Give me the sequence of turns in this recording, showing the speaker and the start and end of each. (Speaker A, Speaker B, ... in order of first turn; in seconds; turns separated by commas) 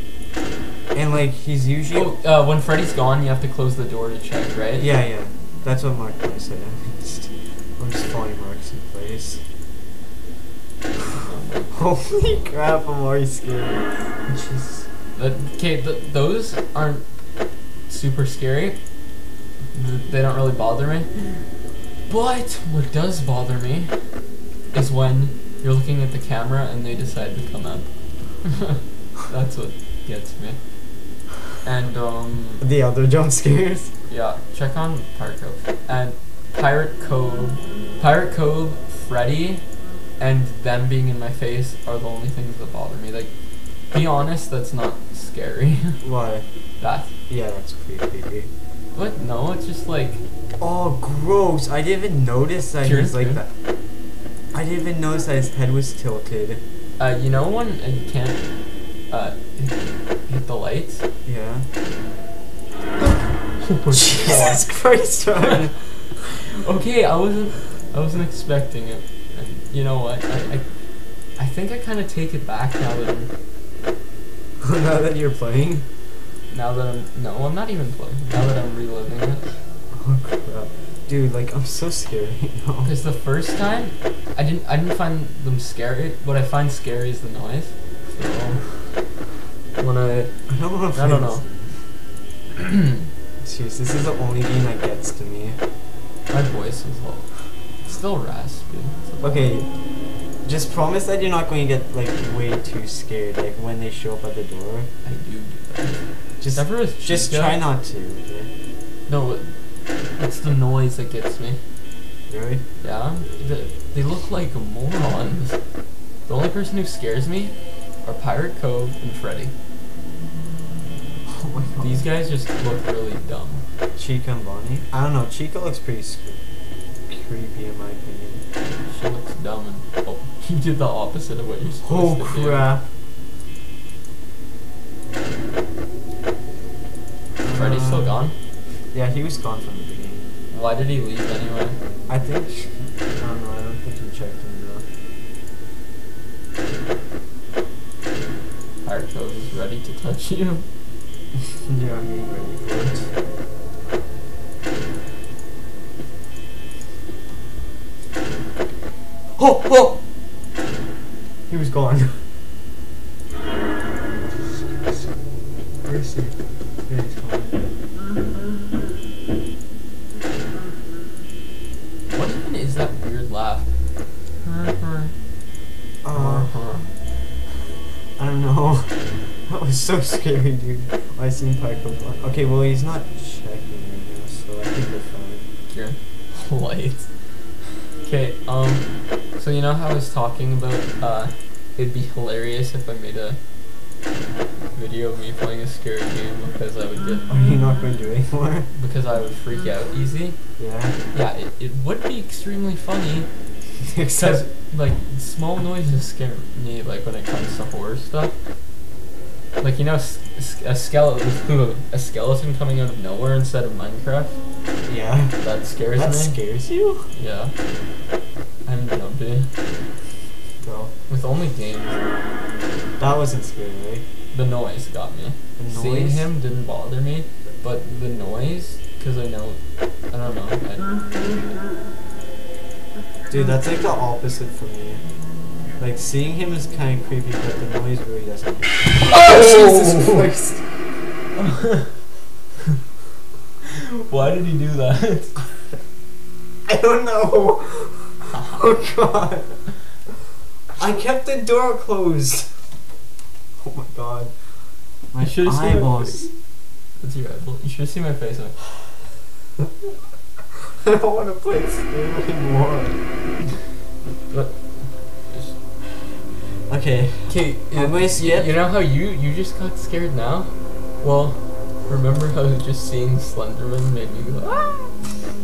Speaker A: 0.9-2.2, Speaker B: 1.9-4.9, Speaker A: 4.8-9.4, Speaker B: 11.1-12.4, Speaker A: 11.7-14.9, Speaker B: 15.2-17.1, Speaker B: 17.9-18.8, Speaker B: 19.7-21.5, Speaker B: 22.1-24.1, Speaker B: 24.7-28.6, Speaker B: 29.2-30.6, Speaker B: 31.6-32.6, Speaker A: 32.6-33.9, Speaker B: 34.1-39.7, Speaker B: 40.2-43.3, Speaker B: 43.9-46.0, Speaker A: 46.0-46.5, Speaker B: 46.8-47.1, Speaker A: 47.3-48.5, Speaker B: 48.9-50.2, Speaker A: 50.6-53.5, Speaker B: 52.8-53.4, Speaker A: 54.5-56.6, Speaker B: 57.0-58.5, Speaker B: 59.1-61.0, Speaker A: 61.2-61.7, Speaker B: 63.6-64.7, Speaker A: 63.9-65.8, Speaker B: 66.5-70.7, Speaker B: 71.4-73.3, Speaker A: 74.6-75.9, Speaker B: 76.5-79.6, Speaker A: 79.9-82.9, Speaker B: 82.8-89.1, Speaker B: 89.8-90.3, Speaker A: 90.5-91.8, Speaker B: 90.9-91.4, Speaker B: 92.6-93.1, Speaker A: 93.4-95.6, Speaker B: 96.3-99.6, Speaker A: 99.2-99.7, Speaker A: 100.5-104.9, Speaker B: 105.0-107.6, Speaker A: 106.4-108.5, Speaker B: 109.1-109.5, Speaker B: 110.2-111.6, Speaker A: 112.3-112.6, Speaker B: 112.8-115.6, Speaker B: 116.3-119.5, Speaker A: 121.3-122.0, Speaker B: 121.8-123.6, Speaker A: 124.0-126.4, Speaker A: 127.1-128.4, Speaker B: 128.9-132.7, Speaker A: 131.8-132.8, Speaker A: 137.4-138.3, Speaker B: 137.5-138.3, Speaker A: 138.9-140.2, Speaker B: 140.5-141.8, Speaker A: 142.1-144.8, Speaker B: 148.8-150.7, Speaker A: 151.7-153.1, Speaker A: 159.4-160.0, Speaker A: 161.5-162.2, Speaker A: 164.4-165.1, Speaker A: 165.8-167.6, Speaker B: 172.1-173.7, Speaker B: 174.4-175.1, Speaker A: 176.0-176.5, Speaker B: 176.1-176.9, Speaker A: 178.2-185.5, Speaker B: 185.7-193.4, Speaker B: 194.7-197.3, Speaker A: 197.3-198.7, Speaker B: 198.8-200.4, Speaker A: 200.6-201.0, Speaker B: 201.1-203.3, Speaker A: 203.9-204.5, Speaker B: 204.2-208.4, Speaker B: 209.6-214.4, Speaker A: 214.9-215.4, Speaker B: 215.4-216.4, Speaker A: 215.9-217.1, Speaker B: 217.1-217.5, Speaker B: 218.7-219.5, Speaker A: 220.6-220.9, Speaker B: 221.1-222.0, Speaker A: 223.0-224.0, Speaker B: 224.3-231.0, Speaker A: 225.6-226.3, Speaker A: 233.3-235.0, Speaker A: 235.8-240.8, Speaker B: 239.0-240.3, Speaker B: 241.4-241.9, Speaker B: 243.7-245.4, Speaker A: 246.7-249.7, Speaker A: 250.8-252.6, Speaker A: 253.6-254.3, Speaker A: 255.1-256.3, Speaker B: 255.2-256.3, Speaker B: 257.0-258.9, Speaker A: 260.8-263.0, Speaker B: 264.3-265.6, Speaker A: 266.7-268.6, Speaker B: 267.3-275.1